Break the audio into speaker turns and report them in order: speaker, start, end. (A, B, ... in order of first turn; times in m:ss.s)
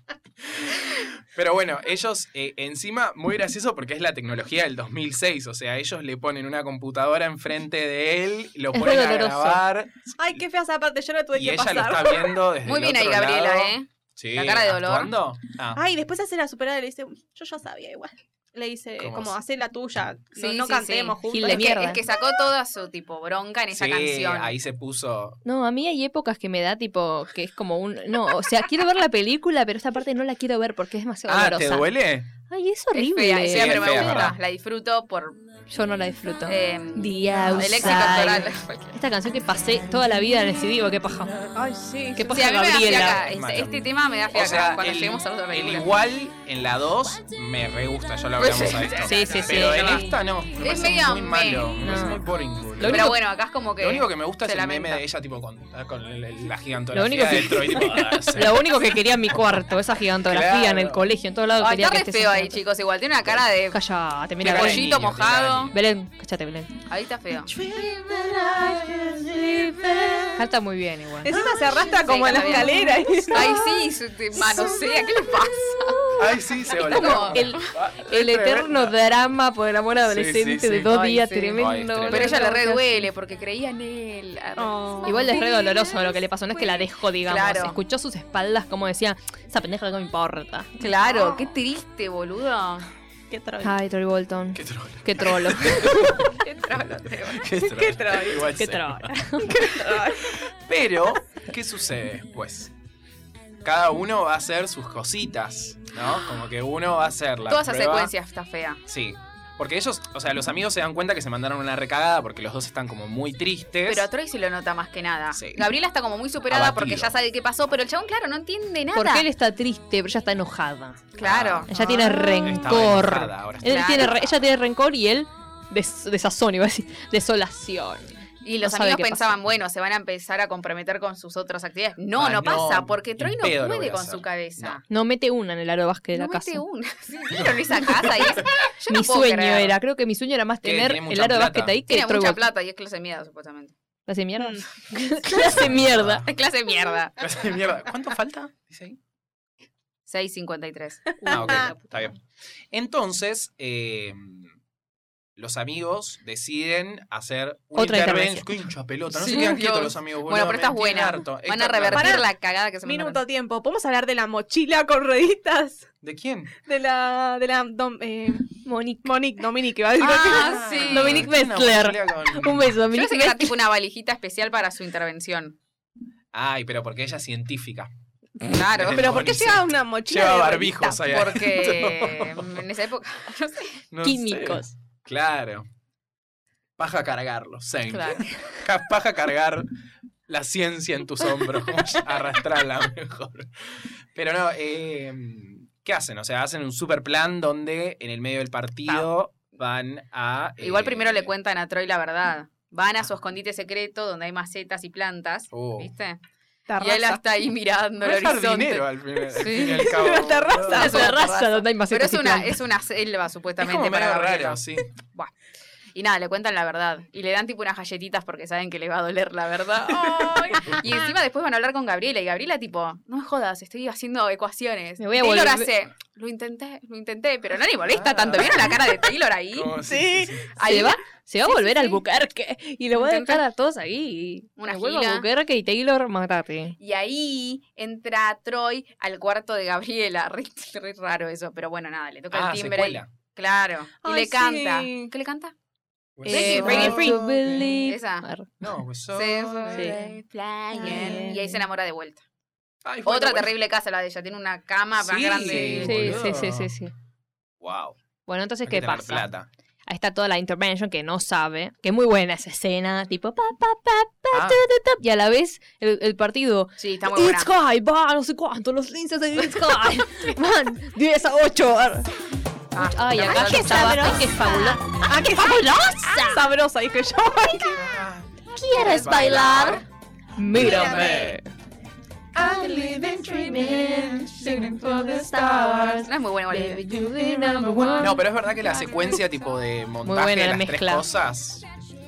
0:00.5-0:10.4 A
0:08.7-0:09.6 B
0:10.2-0:12.4 C
0:11.4-0:15.8 A
0:12.6-0:15.1 D
0:15.8-0:22.0 C
0:19.0-0:19.4 A
0:20.4-0:24.5 D
0:21.3-0:22.0 B
0:23.7-0:25.4 A
0:25.4-0:31.9 B
0:31.3-0:32.3 A
0:32.5-0:34.3 B
0:33.0-0:35.4 D
0:33.5-0:34.4 A
0:35.7-0:41.4 B
0:36.5-0:39.0 D
0:41.6-0:42.4 C
0:42.2-0:43.3 B
0:42.2-0:45.9 D
0:43.3-0:53.2 A
0:48.4-0:50.1 D
0:49.1-0:50.1 B
0:50.6-0:51.8 D
0:51.8-0:52.3 B
0:52.8-0:53.2 B
0:52.8-0:55.0 D
0:53.8-0:58.7 A
0:56.9-1:02.6 B
1:00.2-1:01.1 A
1:01.6-1:03.8 D
1:03.7-1:05.0 B
1:04.4-1:05.7 A
1:04.4-1:05.7 D
1:05.7-1:06.8 B
1:06.9-1:07.5 D
1:07.4-1:10.5 E
1:10.4-1:11.4 B
1:11.2-1:13.7 C
1:11.4-1:16.2 D
1:15.9-1:23.1 B
1:16.2-1:19.0 A
1:16.7-1:17.7 D
1:20.1-1:20.9 A
1:20.8-1:27.8 D
1:21.6-1:22.5 A
1:24.6-1:25.4 C
1:25.0-1:30.7 B
1:30.8-1:32.9 D
1:31.0-1:31.5 C
1:33.3-1:33.8 C
1:33.6-1:36.3 B
1:34.6-1:36.1 A
1:36.3-1:37.5 D
1:37.3-1:39.2 A
1:37.6-1:38.5 C
1:38.5-1:39.7 B
1:39.4-1:40.4 C
1:40.2-1:42.7 A
1:43.6-1:48.1 A
1:47.5-1:48.8 D
1:48.9-1:54.1 A
1:53.9-1:59.3 D
1:55.3-1:55.7 A
1:56.5-1:57.2 A
1:58.9-2:01.1 B
2:01.2-2:02.6 D
2:01.2-2:01.7 A
2:01.7-2:09.4 B
2:02.4-2:04.3 A
2:03.6-2:04.3 D
2:08.4-2:14.8 D
2:12.2-2:14.8 A
2:14.9-2:16.6 B
2:16.1-2:19.8 D
2:17.3-2:18.5 A
2:18.9-2:22.4 B
2:20.6-2:21.8 A
2:21.9-2:23.8 D
2:24.1-2:26.2 B
2:24.4-2:24.6 C
2:25.4-2:26.3 A
2:26.3-2:27.2 D
2:27.2-2:29.0 A
2:30.1-2:31.3 D
2:31.2-2:32.0 B
2:31.3-2:32.2 A
2:32.7-2:34.5 A
2:35.4-2:42.3 A
2:37.8-2:38.6 B
2:39.1-2:43.2 D
2:41.9-2:42.3 C
2:42.8-2:45.9 C
2:46.0-2:46.5 A
2:46.6-2:50.8 C
2:48.6-2:49.1 B
2:50.0-2:51.3 D
2:50.1-2:53.5 B
2:50.2-2:52.8 A
2:52.9-2:55.6 D
2:56.3-2:57.9 A
2:58.4-2:59.2 D
2:58.8-3:02.6 A
2:58.9-3:01.1 C
3:01.0-3:03.8 D
3:03.9-3:05.7 A
3:04.0-3:04.7 B
3:06.8-3:09.7 A
3:07.9-3:08.3 D
3:10.3-3:13.5 A
3:14.1-3:21.3 A
3:20.6-3:26.2 D
3:25.5-3:25.9 A
3:26.7-3:27.2 C
3:26.8-3:30.1 D
3:28.0-3:31.0 A
3:29.5-3:31.2 C
3:30.7-3:32.6 B
3:30.7-3:35.3 D
3:33.6-3:34.9 A
3:36.0-3:49.7 D
3:45.0-3:45.7 B
3:47.9-3:48.9 A
3:49.5-3:50.6 A
3:49.8-3:50.4 C
3:50.6-3:52.0 D
3:50.6-3:56.8 B
3:52.9-3:53.4 D
3:54.6-3:55.3 D
3:56.8-4:05.5 D
4:02.3-4:03.1 A
4:04.0-4:05.1 C
4:06.2-4:07.7 A
4:06.2-4:07.2 D
4:06.3-4:08.5 B
4:06.5-4:07.2 C
4:07.9-4:08.3 D
4:08.6-4:09.9 A
4:09.1-4:12.2 D
4:10.7-4:11.4 C
4:10.8-4:11.4 B
4:12.8-4:13.5 A
4:13.0-4:16.2 D
4:15.0-4:16.7 A
4:15.8-4:16.9 B
4:17.6-4:18.0 A
4:18.3-4:19.3 B
4:18.7-4:19.5 A
4:19.9-4:32.1 B
4:24.3-4:24.6 A
4:26.8-4:27.5 D
4:32.7-4:34.6 D
4:32.8-4:36.5 B
4:33.2-4:38.0 C
4:37.8-4:39.8 A
4:38.6-4:39.8 B
4:39.1-4:39.7 D
4:40.4-4:41.5 B
4:40.6-4:41.4 E
4:40.6-4:41.2 C
4:40.6-4:41.2 D
4:42.3-4:48.2 E
4:46.1-4:46.8 D
4:46.8-4:48.2 B
4:48.0-4:51.6 A
4:50.0-4:51.0 B